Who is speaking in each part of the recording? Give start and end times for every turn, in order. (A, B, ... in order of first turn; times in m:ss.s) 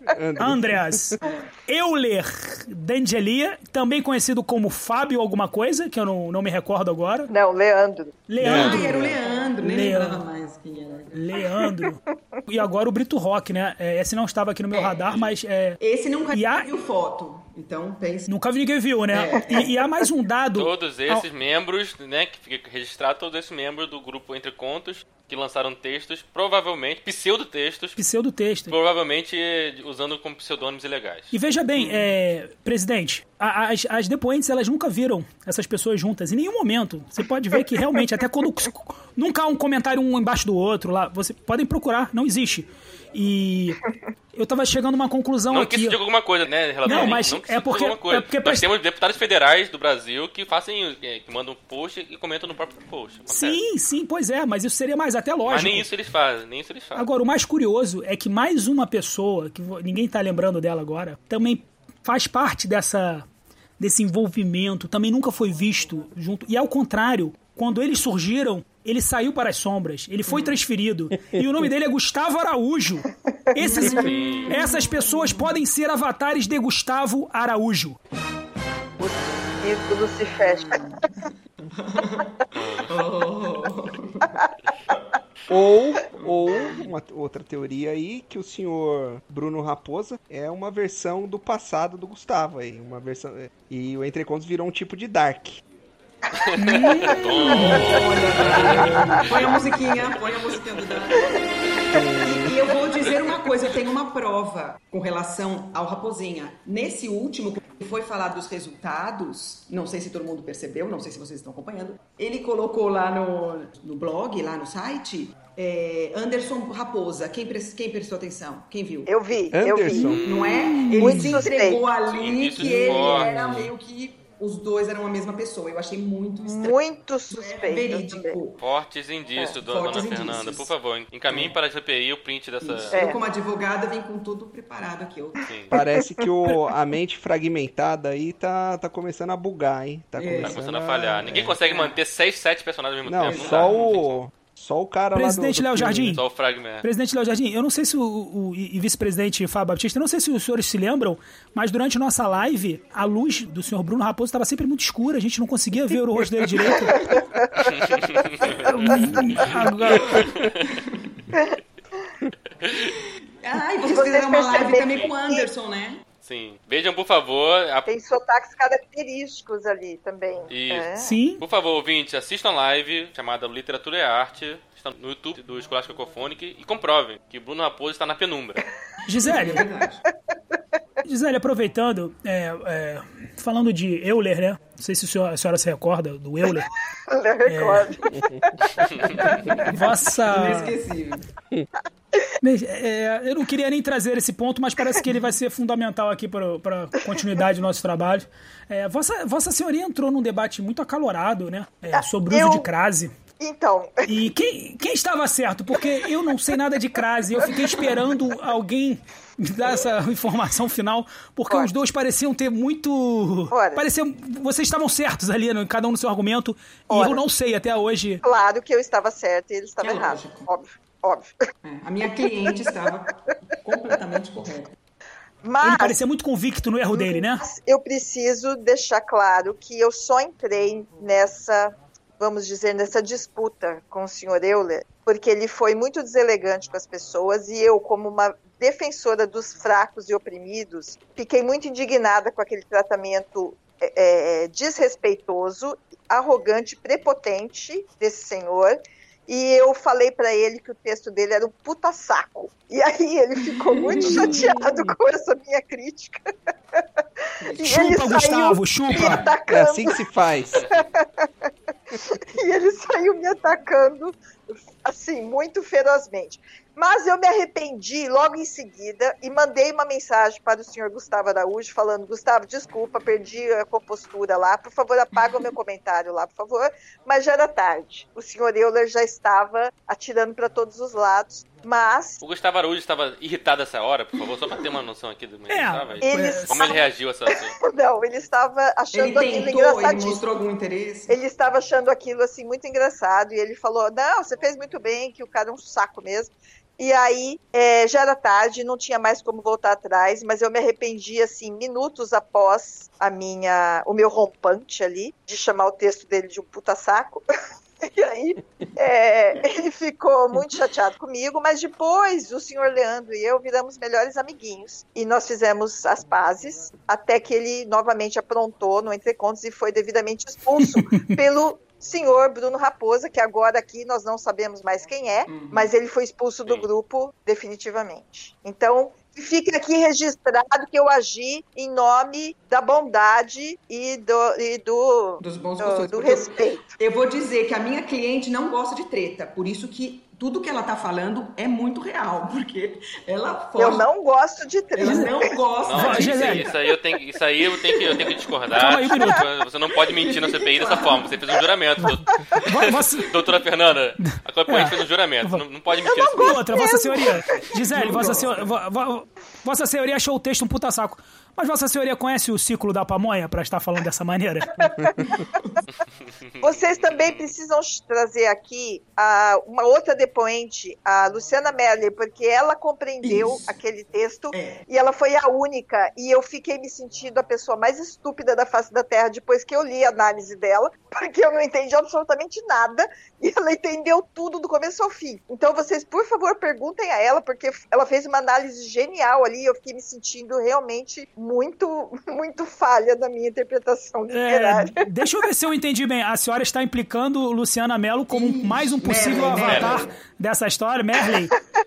0:00.1-0:01.2 A
0:00.4-0:07.3 B
0:07.3-0:08.2 C
0:08.3-0:09.0 B
0:08.4-0:09.2 A
0:08.4-0:11.4 D
0:09.6-0:10.2 B
0:11.1-0:15.8 B
0:14.7-0:15.0 D
0:15.8-0:18.3 D
0:16.3-0:16.7 B
0:18.3-0:21.3 B
0:19.1-0:19.8 D
0:20.5-0:28.0 E
0:28.0-0:28.7 B
0:28.7-0:31.3 E
0:31.3-0:43.8 B
0:31.8-0:32.1 D
0:44.4-0:46.0 B
0:45.5-0:53.6 E
0:46.8-0:48.6 B
0:53.3-0:55.9 B
0:55.4-0:57.0 E
0:56.9-1:03.2 B
1:03.8-1:18.0 B
1:10.3-1:10.5 D
1:13.6-1:15.6 D
1:13.9-1:14.6 E
1:19.0-1:20.8 C
1:20.4-1:24.4 D
1:22.5-1:23.0 E
1:25.5-1:35.6 A
1:26.2-1:26.8 D
1:36.3-1:40.9 E
1:36.6-1:37.8 B
1:37.5-1:41.4 D
1:41.9-1:42.6 A
1:42.2-1:59.1 D
1:59.0-2:00.2 C
1:59.5-2:00.2 A
2:00.0-2:00.9 E
2:00.2-2:06.8 D
2:00.7-2:01.4 B
2:01.0-2:01.8 C
2:02.1-2:03.6 E
2:02.8-2:03.3 C
2:06.4-2:08.4 C
2:07.3-2:08.6 D
2:08.6-2:13.0 E
2:09.6-2:10.7 D
2:11.3-2:11.5 D
2:12.6-2:15.4 D
2:12.9-2:13.2 C
2:15.4-2:15.7 E
2:15.7-2:21.5 A
2:20.2-2:20.6 D
2:20.4-2:24.2 E
2:21.4-2:22.0 D
2:23.0-2:26.2 A
2:23.2-2:23.9 D
2:25.1-2:26.2 B
2:26.1-2:26.8 E
2:26.8-2:37.0 B
2:36.9-2:37.2 D
2:37.0-2:37.8 C
2:37.6-2:40.8 E
2:38.6-2:40.2 B
2:39.9-2:41.2 D
2:41.3-2:41.6 C
2:42.6-2:43.0 E
2:43.4-2:46.0 D
2:43.8-2:45.5 C
2:46.2-2:47.9 E
2:47.8-2:51.2 C
2:50.5-2:58.6 E
2:51.0-2:51.4 B
2:59.0-2:59.6 B
2:59.2-3:00.0 D
3:01.0-3:06.7 B
3:07.1-3:09.7 C
3:07.4-3:07.9 B
3:09.2-3:11.3 D
3:09.6-3:10.7 B
3:12.4-3:23.1 B
3:21.9-3:22.7 C
3:23.4-3:24.2 C
3:24.1-3:38.2 B
3:33.5-3:33.8 C
3:36.9-3:37.2 C
3:38.2-3:41.3 C
3:39.8-3:40.5 D
3:41.6-3:44.8 D
3:45.4-3:46.0 C
3:45.6-3:47.4 B
3:46.9-4:16.2 C
4:13.5-4:14.5 D
4:14.0-4:15.0 A
4:17.4-4:17.9 D
4:17.5-4:20.0 C
4:17.6-4:19.2 B
4:19.5-4:20.6 A
4:20.7-4:21.3 C
4:21.9-4:42.2 C
4:42.2-4:47.5 E
4:45.5-4:46.6 B
4:46.0-4:50.2 C
4:46.1-4:46.4 D
4:48.9-4:51.2 D
4:51.1-5:07.2 C
5:07.8-5:36.8 C
5:20.6-5:21.2 B
5:25.3-5:25.7 D
5:35.2-5:43.9 D
5:43.6-5:45.3 C
5:44.7-5:46.5 D
5:45.6-5:56.4 E
5:45.7-5:46.5 B
5:48.5-5:49.2 B
5:49.9-5:51.1 D
5:51.8-5:53.1 B
5:54.0-5:55.4 B
5:55.8-5:57.3 C
5:56.2-6:04.5 B
5:57.7-5:58.5 D
6:04.6-6:05.2 C
6:05.0-6:05.6 D
6:06.4-6:07.2 E
6:06.4-6:34.8 C
6:13.0-6:13.5 D
6:14.3-6:14.6 D
6:34.1-6:41.3 B
6:38.1-6:40.0 D
6:39.3-6:39.8 E